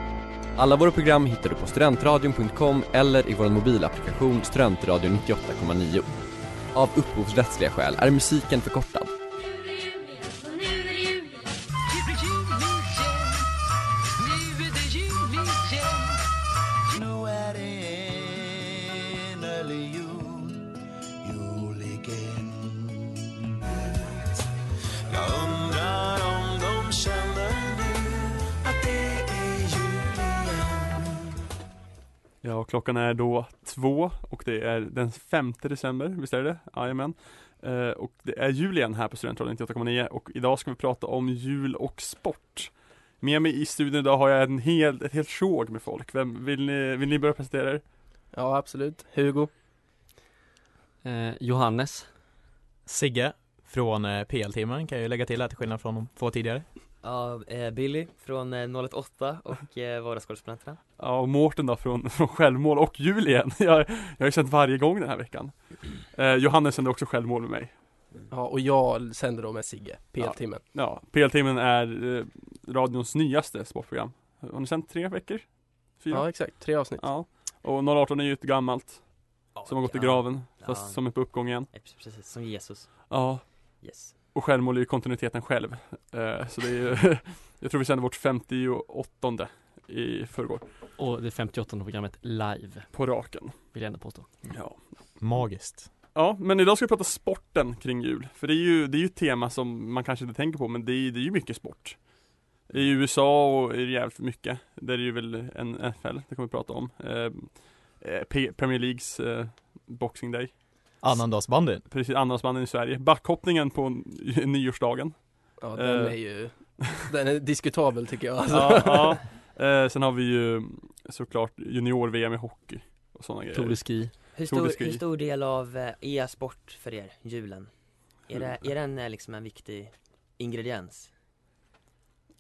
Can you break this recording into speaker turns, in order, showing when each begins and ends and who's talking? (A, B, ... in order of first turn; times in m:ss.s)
0:00.6-0:06.2 A
0:06.7-0:09.2 A
0:10.2-0:11.4 B
0:12.0-0:13.3 B
0:14.2-0:16.1 B
0:16.9-0:20.7 B
0:21.2-0:24.4 B
0:25.1-0:31.4 B
0:32.4-0:47.8 C
0:48.3-0:49.5 D
0:51.0-0:52.1 E
0:52.9-0:56.6 F
0:57.0-1:00.8 G
1:01.0-1:07.8 C
1:08.3-1:10.6 D
1:10.2-1:15.5 C
1:16.0-1:21.7 C
1:16.1-1:17.1 D
1:19.6-1:21.0 G
1:21.7-1:23.1 G
1:23.1-1:23.4 C
1:23.8-1:24.1 G
1:24.3-1:30.6 C
1:31.0-1:32.9 E
1:32.9-1:33.6 C
1:33.7-1:34.4 E
1:34.5-1:34.8 C
1:35.2-1:35.9 F
1:36.2-1:42.1 C
1:42.7-1:50.5 C
1:51.0-1:51.8 F
1:51.9-1:56.2 C
1:55.6-1:59.2 D
1:58.5-2:05.0 C
2:03.5-2:04.1 E
2:04.4-2:07.7 G
2:08.3-2:11.1 G